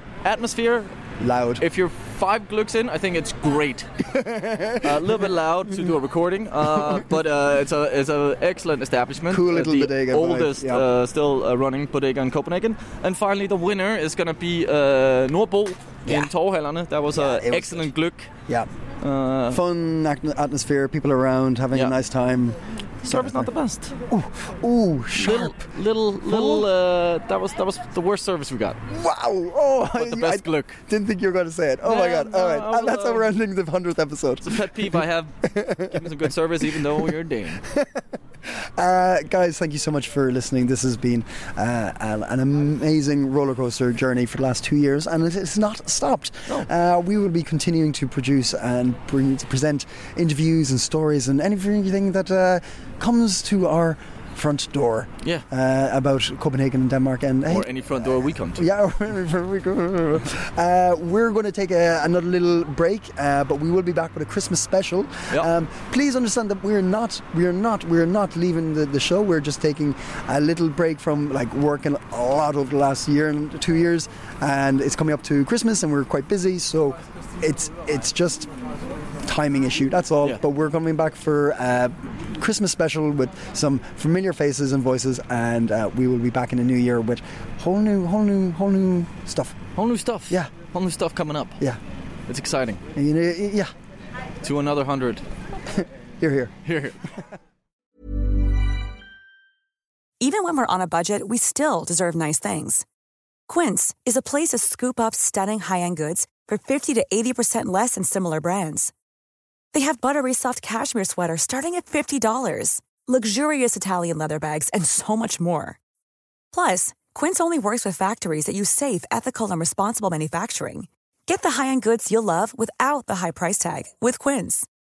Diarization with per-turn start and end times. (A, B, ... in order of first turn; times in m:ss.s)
0:00.2-0:00.9 A
0:01.2-0:01.6 B
0:01.6-0:04.0 A
0:04.1-0:04.8 B
0:04.8-0:18.3 A
0:09.3-0:10.8 B
0:16.0-0:16.3 B
0:17.1-0:17.9 B
0:19.0-0:19.6 A
0:19.5-0:23.5 B
0:23.0-0:23.9 A
0:24.1-0:25.6 B
0:25.2-0:28.8 A
0:26.2-0:26.7 B
0:28.9-0:36.0 B
0:29.9-0:30.8 A
0:31.8-0:33.3 A
0:34.4-0:37.6 A
0:38.8-0:58.0 B
0:57.5-0:58.7 A
0:58.5-1:18.5 B
1:19.2-1:29.6 B
1:29.8-1:31.6 A
1:32.3-1:32.8 A
1:32.9-1:33.7 B
1:34.4-1:35.2 A
1:36.2-1:36.5 B
1:36.6-1:37.0 A
1:40.2-1:42.8 C
1:43.5-1:48.9 C
1:49.7-1:55.8 C
1:56.5-2:04.7 C